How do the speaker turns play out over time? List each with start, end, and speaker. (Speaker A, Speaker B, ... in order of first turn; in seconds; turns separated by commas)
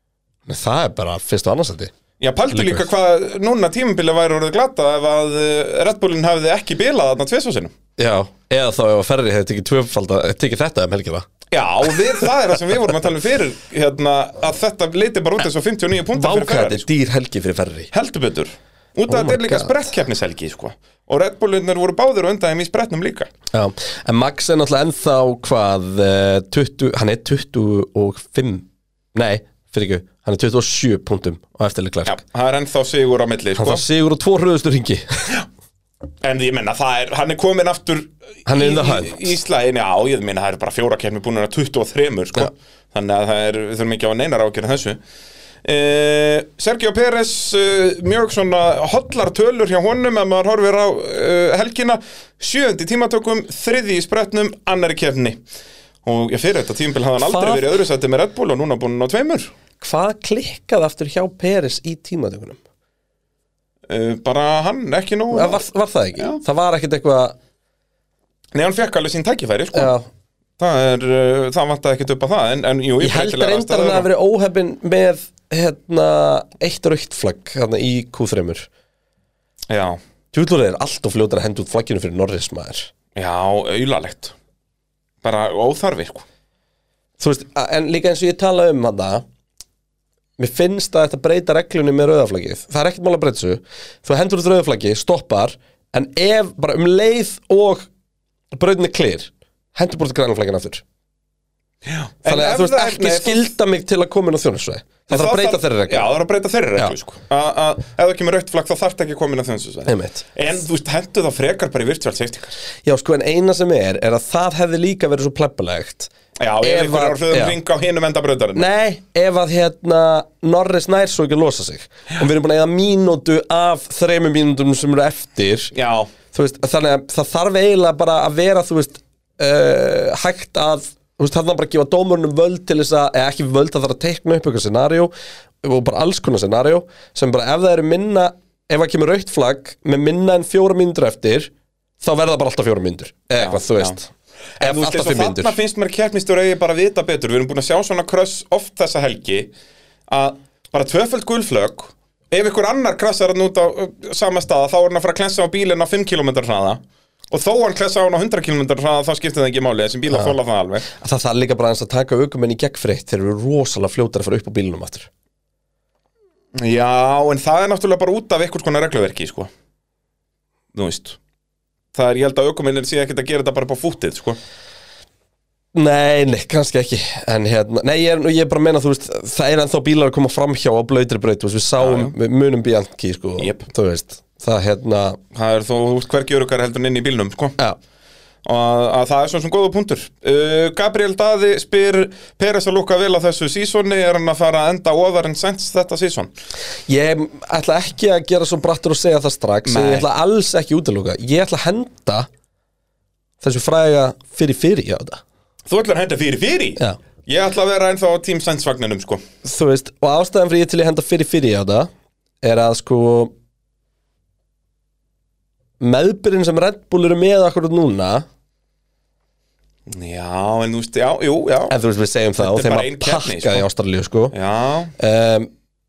Speaker A: 0.5-1.9, Speaker B: 2.2-7.7, Speaker A: 2.5-2.9, Speaker A: 8.0-11.3, Speaker B: 11.5-16.9, Speaker A: 16.1-17.9, Speaker B: 17.9-23.3, Speaker A: 19.1-19.8, Speaker A: 23.5-32.2, Speaker B: 32.1-33.8, Speaker A: 33.6-35.4, Speaker B: 36.2-45.0, Speaker A: 38.5-39.3, Speaker B: 45.6-55.4, Speaker B: 56.0-59.5, Speaker A: 57.2-57.7, Speaker A: 59.8-62.6, Speaker B: 63.9-65.6, Speaker A: 65.3-67.4, Speaker B: 68.5-69.9, Speaker A: 69.7-70.1, Speaker B: 70.6-74.1, Speaker A: 73.0-78.7, Speaker B: 79.7-80.0, Speaker A: 80.3-82.9, Speaker B: 83.2-84.3, Speaker B: 85.2-86.2, Speaker A: 87.2-89.2, Speaker A: 90.4-97.9, Speaker A: 98.5-100.8, Speaker B: 101.8-103.5, Speaker A: 102.2-106.1, Speaker B: 105.1-112.5, Speaker A: 109.9-110.2, Speaker A: 112.8-116.1, Speaker B: 116.4-118.7, Speaker A: 116.6-117.6, Speaker A: 118.6-125.7, Speaker B: 125.7-126.1, Speaker A: 126.3-145.6, Speaker B: 143.4-144.0, Speaker B: 144.6-149.5, Speaker B: 150.1-160.9, Speaker A: 160.1-160.3, Speaker A: 160.9-165.1, Speaker B: 166.6-169.5, Speaker B: 170.7-171.2, Speaker B: 171.9-174.4, Speaker A: 175.7-185.2, Speaker B: 181.8-182.1, Speaker B: 183.4-183.7, Speaker B: 185.3-187.6, Speaker B: 188.4-196.3, Speaker A: 196.9-202.3, Speaker B: 199.7-200.1, Speaker A: 203.4-205.2, Speaker B: 205.7-209.2, Speaker A: 209.4-211.9, Speaker A: 212.4-213.3, Speaker A: 215.8-218.3, Speaker B: 219.9-221.7, Speaker A: 221.7-224.3, Speaker B: 222.4-223.7, Speaker B: 224.3-224.9, Speaker A: 225.0-225.5